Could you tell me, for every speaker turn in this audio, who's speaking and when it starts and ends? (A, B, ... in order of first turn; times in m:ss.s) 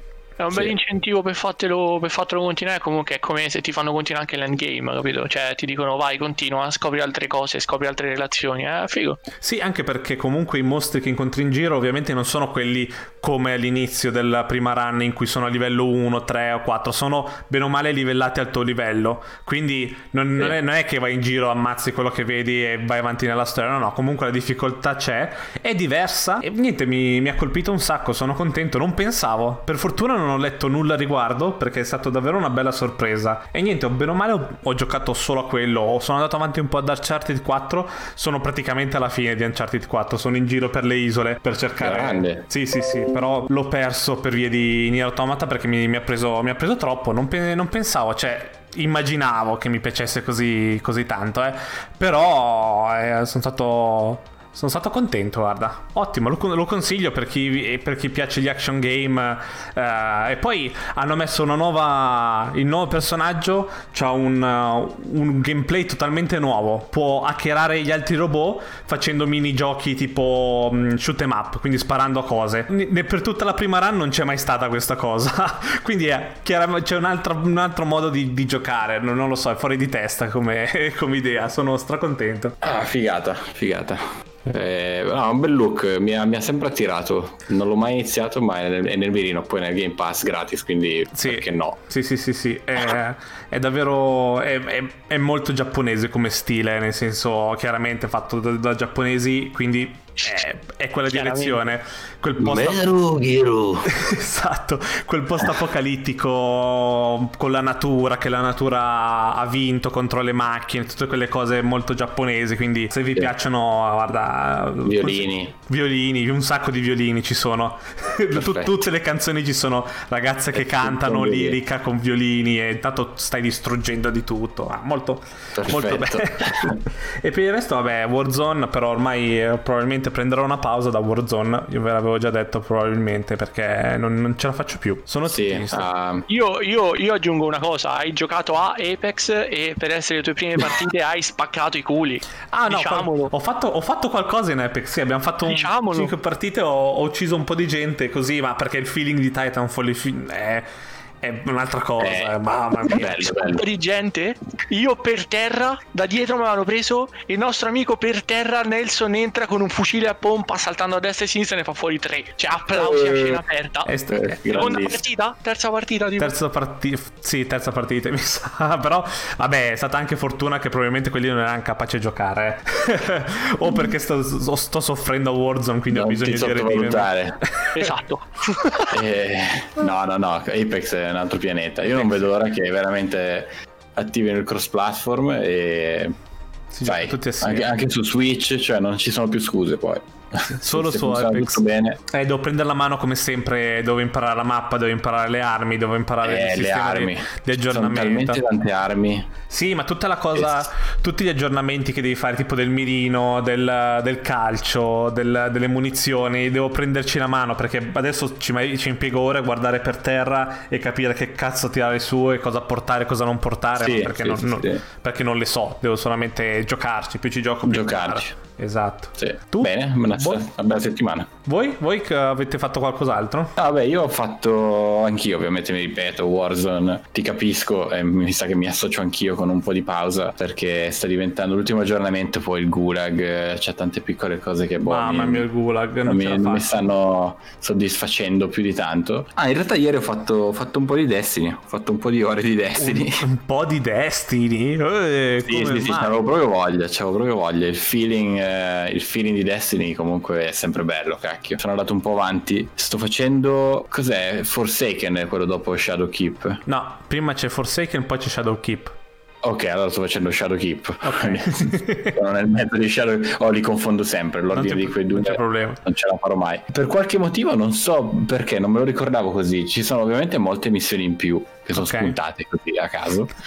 0:00.4-0:09.2 A
0:09.4-1:22.6 B
0:41.8-0:42.5 C
1:22.6-1:31.8 C
1:31.2-1:42.8 B
1:41.1-1:41.6 A
1:42.4-1:43.9 C
1:43.9-2:15.9 B
1:54.8-1:55.5 C
1:58.3-1:58.8 C
2:00.5-2:01.6 C
2:05.5-2:06.8 C
2:15.3-2:16.2 C
2:16.3-2:23.3 A
2:22.5-2:30.7 B
2:25.4-2:26.1 A
2:31.2-2:33.4 B
2:32.0-2:33.7 C
2:33.3-2:43.9 A
2:42.7-2:43.4 C
2:43.9-2:44.6 B
2:44.1-2:45.0 C
2:44.5-2:46.4 A
2:46.2-2:57.7 B
2:55.9-2:57.4 C
2:57.7-2:59.0 A
2:58.9-3:06.2 C
3:06.7-3:07.7 B
3:06.8-3:12.0 C
3:10.5-3:18.4 B
3:16.2-3:19.3 C
3:19.5-3:40.4 B
3:20.4-3:20.6 C
3:33.8-3:34.8 C
3:37.6-3:38.3 C
3:39.2-3:41.3 C
3:41.4-3:43.5 B
3:43.6-3:55.5 C
3:54.8-3:56.9 B
3:56.0-4:03.2 C
4:02.8-4:06.2 B
4:05.5-4:16.6 C
4:16.7-4:19.0 B
4:19.4-4:33.3 C
4:21.0-4:22.2 B
4:24.5-4:25.8 B
4:31.8-4:32.2 B